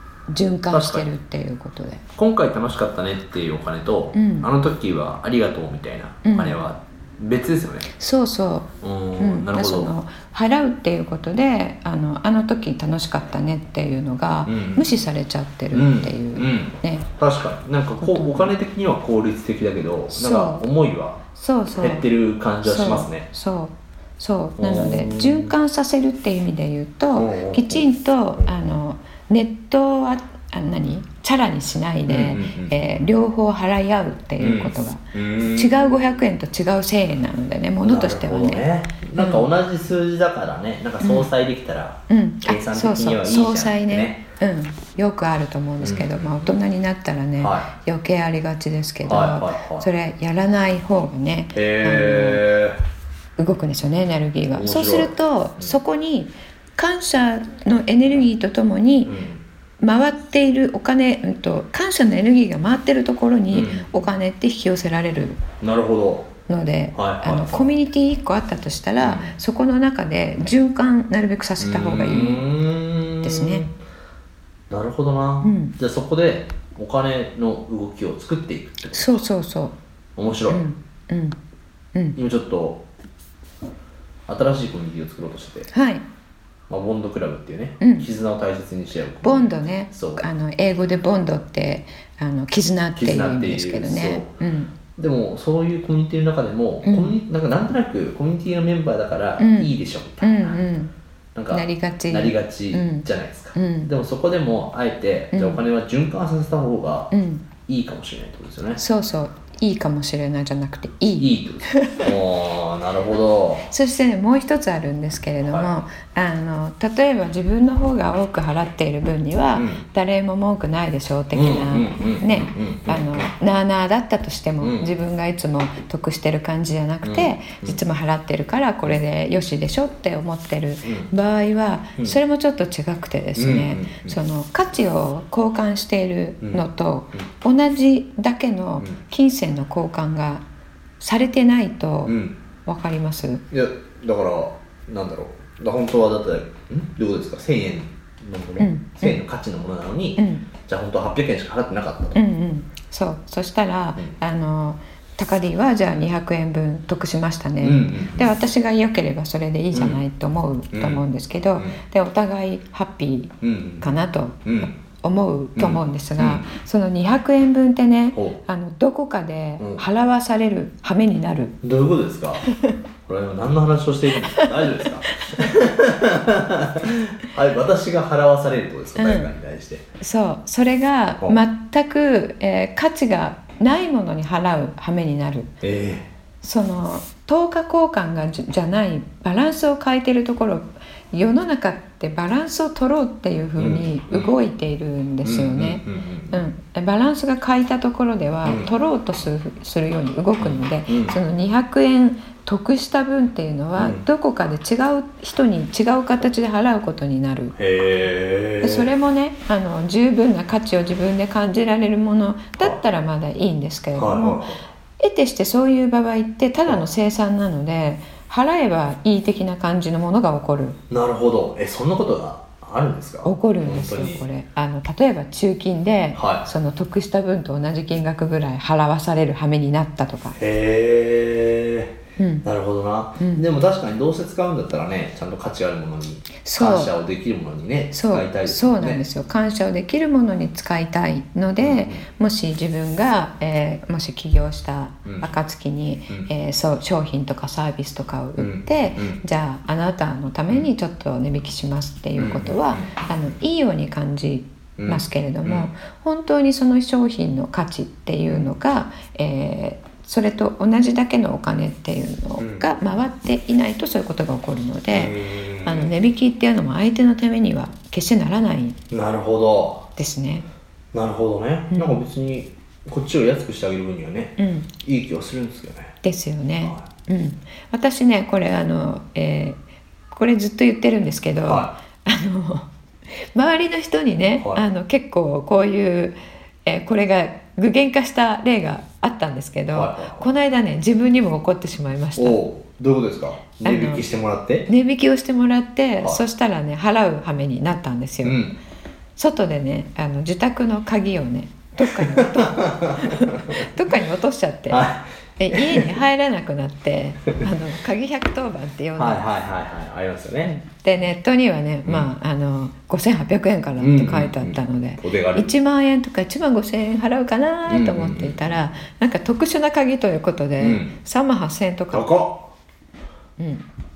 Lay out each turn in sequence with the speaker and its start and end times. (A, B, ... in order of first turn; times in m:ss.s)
0:00.3-0:02.0 A
0:00.7-0:01.1 B
0:02.2-0:07.9 B
0:04.1-0:04.5 A
0:06.2-0:06.6 A
0:07.9-0:17.1 A
0:08.8-0:09.9 B
0:14.4-0:14.9 B
0:15.7-0:21.2 B
0:18.0-0:18.5 A
0:20.1-0:20.6 A
0:21.3-0:22.1 A
0:21.8-0:23.3 B
0:22.6-0:35.0 A
0:24.6-0:25.5 B
0:27.2-0:28.5 B
0:32.0-0:32.8 B
0:34.4-0:35.7 B
0:35.5-0:38.6 A
0:37.8-0:44.2 B
0:39.1-0:39.5 A
0:41.0-0:41.3 A
0:42.1-0:52.4 A
0:45.8-0:46.5 B
0:47.4-0:47.7 B
0:49.0-0:49.9 B
0:51.5-0:52.8 B
0:53.4-0:59.1 A
0:54.5-0:55.8 B
0:59.0-0:59.4 B
0:59.8-1:05.4 A
1:03.5-1:03.9 B
1:05.6-1:06.3 B
1:06.5-1:12.4 A
1:06.9-1:07.7 B
1:09.0-1:09.3 B
1:11.6-1:13.7 B
1:13.2-1:13.6 A
1:14.7-1:19.3 B
1:15.4-1:15.8 A
1:18.9-1:19.8 A
1:20.2-1:20.6 B
1:20.5-1:21.4 A
1:22.2-1:22.8 B
1:24.3-1:25.7 B
1:25.7-1:26.0 A
1:26.7-1:30.2 B
1:27.8-1:28.1 A
1:29.2-1:34.7 A
1:33.0-1:34.3 B
1:35.0-1:40.6 B
1:36.8-1:37.1 A
1:39.4-1:40.9 A
1:41.3-1:47.1 B
1:41.5-1:43.9 A
1:45.3-1:45.6 A
1:47.1-1:47.4 A
1:47.7-1:48.8 B
1:48.8-1:52.1 A
1:51.2-1:53.7 B
1:53.7-2:20.4 A
1:55.4-1:55.7 B
1:59.5-1:59.8 B
2:01.3-2:03.3 B
2:04.6-2:04.9 B
2:07.0-2:07.8 B
2:10.8-2:11.1 B
2:13.4-2:14.2 B
2:16.4-2:17.2 B
2:21.0-2:23.4 A
2:22.0-2:22.4 B
2:23.5-2:32.2 B
2:28.6-2:29.2 A
2:30.2-2:30.5 A
2:32.1-2:51.6 A
2:37.6-2:38.3 B
2:39.7-2:40.0 B
2:40.7-2:41.0 B
2:41.5-2:41.8 B
2:43.4-2:43.9 B
2:44.4-2:44.7 B
2:45.6-2:46.5 B
2:48.1-2:48.4 B
2:49.6-2:49.8 B
2:51.6-2:52.5 B
2:52.5-2:52.8 A
2:53.0-2:59.8 B
2:55.1-2:55.4 A
2:56.8-2:57.1 A
2:59.0-2:59.3 A
3:00.0-3:05.5 A
3:05.6-3:06.1 B
3:06.4-3:27.5 A
3:13.6-3:14.3 B
3:15.2-3:16.4 B
3:18.4-3:18.7 B
3:20.4-3:21.2 B
3:23.8-3:24.0 B
3:27.5-3:28.9 B
3:28.6-3:34.4 A
3:33.9-3:34.6 B
3:35.0-3:40.8 A
3:40.9-3:44.2 B
3:43.2-3:50.4 A
3:46.1-3:46.5 B
3:50.4-3:59.0 B
3:52.2-3:52.4 A
3:53.2-3:53.4 A
3:56.4-3:57.0 A
3:57.9-4:28.8 A
4:01.6-4:02.0 B
4:05.0-4:05.3 B
4:08.4-4:09.2 B
4:12.2-4:13.0 B
4:14.8-4:15.7 B
4:22.4-4:22.7 B
4:24.9-4:25.9 B
4:28.9-4:29.9 B
4:30.0-4:30.4 A
4:30.9-4:35.9 B
4:31.7-4:32.0 A
4:34.4-4:34.7 A
4:36.0-4:39.6 A
4:40.1-4:42.7 A
4:41.4-4:41.8 B
4:43.3-4:52.4 A
4:44.4-4:44.6 B
4:49.7-4:50.3 B
4:52.2-4:54.7 B
4:53.6-4:54.0 A
4:54.7-4:58.4 A
4:58.2-4:58.6 B
4:59.2-5:04.8 A
5:02.1-5:03.6 B
5:04.7-5:06.0 B
5:05.4-5:09.2 A
5:09.0-5:10.5 B
5:10.4-5:22.1 A
5:11.8-5:12.1 B
5:13.8-5:15.5 B
5:17.6-5:18.4 B
5:20.6-5:21.0 B
5:21.9-5:22.5 B
5:23.4-5:23.6 A